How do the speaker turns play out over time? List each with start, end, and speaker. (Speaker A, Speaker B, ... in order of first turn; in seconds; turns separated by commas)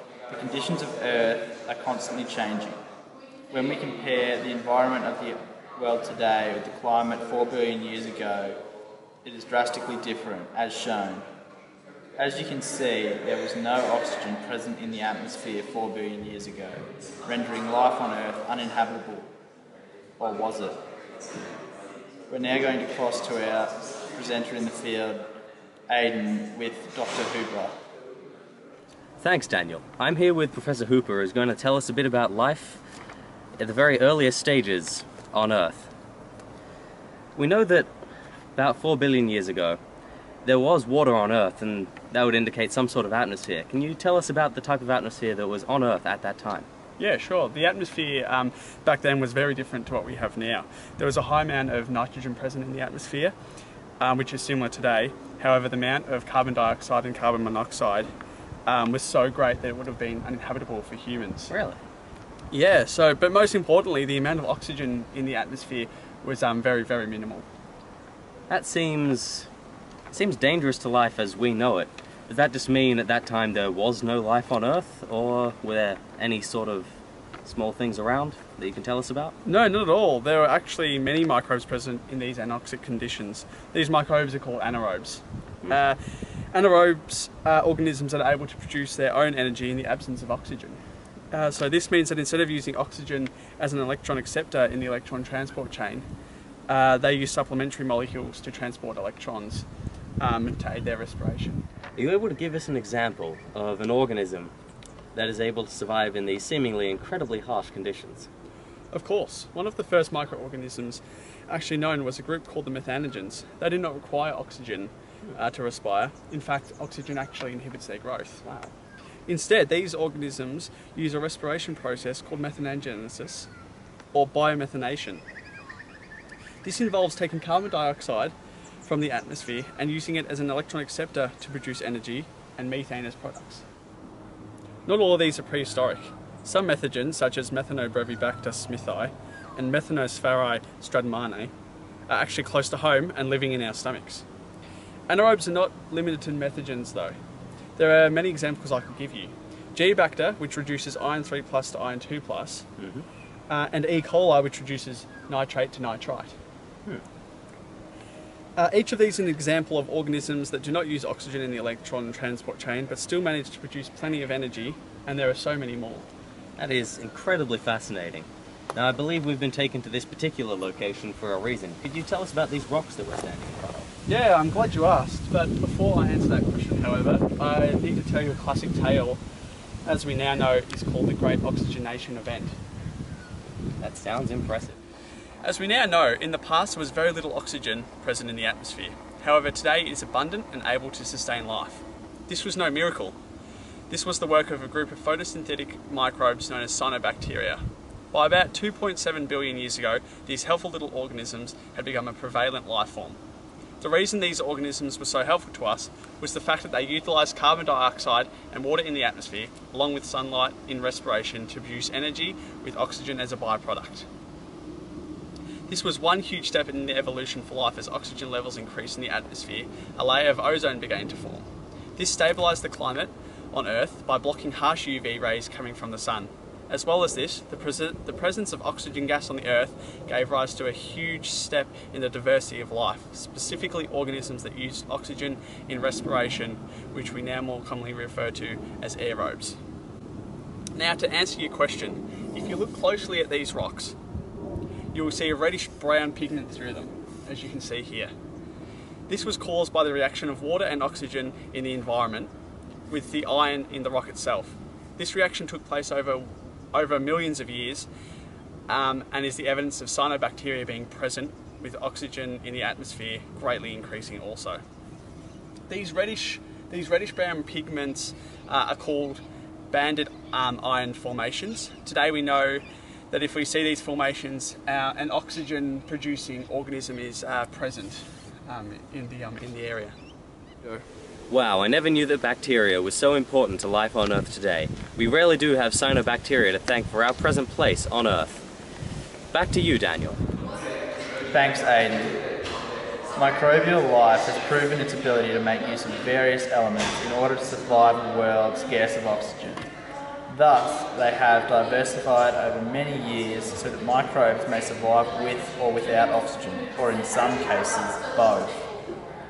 Speaker A: 0.3-2.8, Speaker A: 3.5-8.7, Speaker A: 9.2-11.3, Speaker A: 12.2-19.3, Speaker A: 20.2-20.8, Speaker A: 22.3-25.3, Speaker A: 25.9-27.8, Speaker B: 29.2-32.8, Speaker B: 33.6-35.9, Speaker B: 37.4-37.9, Speaker B: 38.6-39.8, Speaker B: 40.5-46.7, Speaker C: 47.0-53.3, Speaker C: 54.0-58.1, Speaker C: 58.7-61.5, Speaker B: 61.5-61.8, Speaker C: 62.5-67.5, Speaker B: 68.5-69.5, Speaker B: 70.1-79.3, Speaker C: 79.5-86.0, Speaker C: 86.5-90.8, Speaker C: 91.3-96.0, Speaker C: 96.7-99.7, Speaker C: 100.2-101.6, Speaker B: 102.0-104.5, Speaker B: 105.2-108.3, Speaker C: 108.9-118.7, Speaker C: 119.3-123.5, Speaker C: 124.1-125.2, Speaker C: 126.6-133.7, Speaker C: 134.9-141.5, Speaker C: 142.1-144.2, Speaker C: 145.1-147.1, Speaker C: 147.8-152.7, Speaker C: 153.5-156.3, Speaker C: 158.6-166.1, Speaker B: 166.6-173.9, Speaker C: 174.1-179.2, Speaker C: 179.9-182.6, Speaker B: 183.8-184.8, Speaker C: 185.4-193.2, Speaker C: 193.9-203.2, Speaker C: 203.8-214.1, Speaker C: 215.7-239.6, Speaker C: 240.8-243.9, Speaker C: 244.9-248.1, Speaker C: 249.1-252.3, Speaker C: 252.9-257.9, Speaker C: 258.7-264.6, Speaker C: 265.7-279.9, Speaker B: 281.3-288.4, Speaker B: 289.3-290.2, Speaker A: 291.3-292.2, Speaker A: 293.1-299.7, Speaker A: 300.3-308.6